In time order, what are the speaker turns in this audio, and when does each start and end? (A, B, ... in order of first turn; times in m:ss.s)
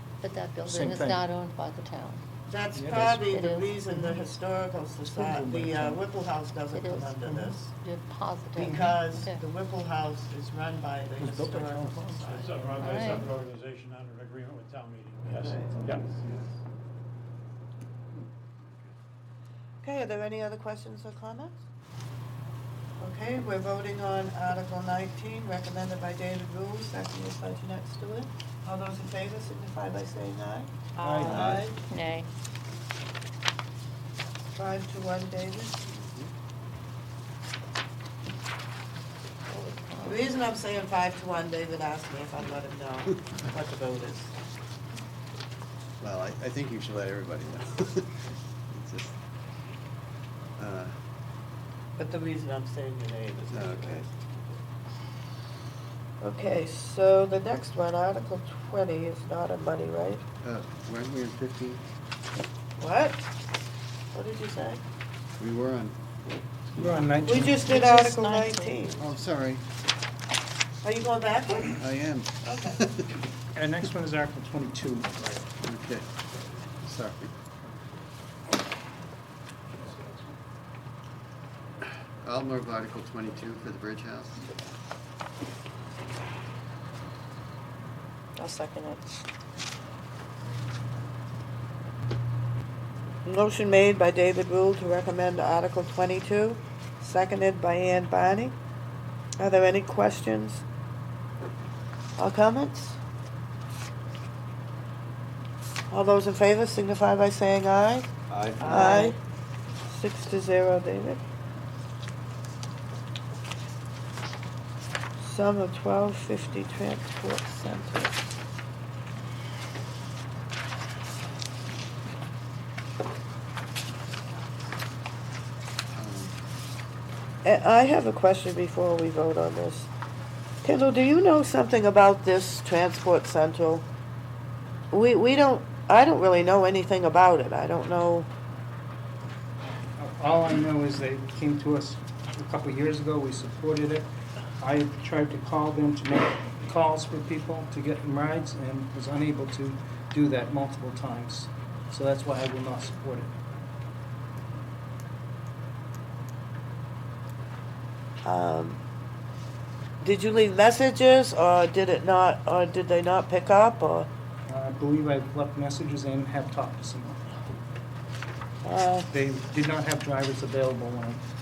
0:00.2-0:02.2 A
0:00.6-0:01.2 B
0:02.5-0:07.7 C
0:02.7-0:03.2 B
0:03.2-0:03.8 A
0:05.0-0:06.0 B
0:06.7-0:09.4 A
0:08.6-0:13.0 C
0:11.2-0:12.4 B
0:12.2-0:16.0 D
0:12.7-0:13.3 A
0:16.0-0:16.4 E
0:19.8-0:21.6 C
0:23.0-0:31.8 C
0:31.0-0:31.7 B
0:31.2-0:31.7 E
0:31.9-0:32.3 A
0:34.6-0:35.8 C
0:35.9-0:36.3 E
0:39.5-0:40.2 A
0:40.0-0:44.3 C
0:46.0-0:49.2 E
0:50.6-0:51.0 E
0:52.0-0:54.2 C
0:53.5-0:54.1 E
0:56.2-1:00.2 C
1:00.4-1:01.8 E
1:02.8-1:03.3 C
1:04.1-1:04.8 C
1:05.4-1:06.0 E
1:06.7-1:07.2 E
1:06.8-1:07.7 B
1:07.2-1:09.1 C
1:07.7-1:08.1 A
1:09.0-1:09.6 E
1:10.8-1:11.8 C
1:11.8-1:13.1 E
1:12.4-1:12.8 C
1:13.5-1:15.3 B
1:15.6-1:16.1 E
1:16.8-1:17.3 E
1:19.8-1:20.2 D
1:22.2-1:24.5 E
1:33.2-1:38.6 C
1:39.4-1:40.6 C
1:42.2-1:43.0 C
1:45.9-1:48.1 C
1:48.3-1:48.9 E
1:48.6-1:49.2 C
1:49.9-1:51.2 C
1:55.2-1:58.2 C
2:05.9-2:06.4 E
2:07.4-2:09.9 C
2:10.6-2:13.9 C
2:14.9-2:18.3 C
2:20.0-2:24.1 B
2:24.6-2:33.3 B
2:38.2-2:38.8 C
2:40.0-2:44.1 C
2:44.5-2:47.2 B
2:48.6-2:49.1 C
2:49.1-2:51.2 B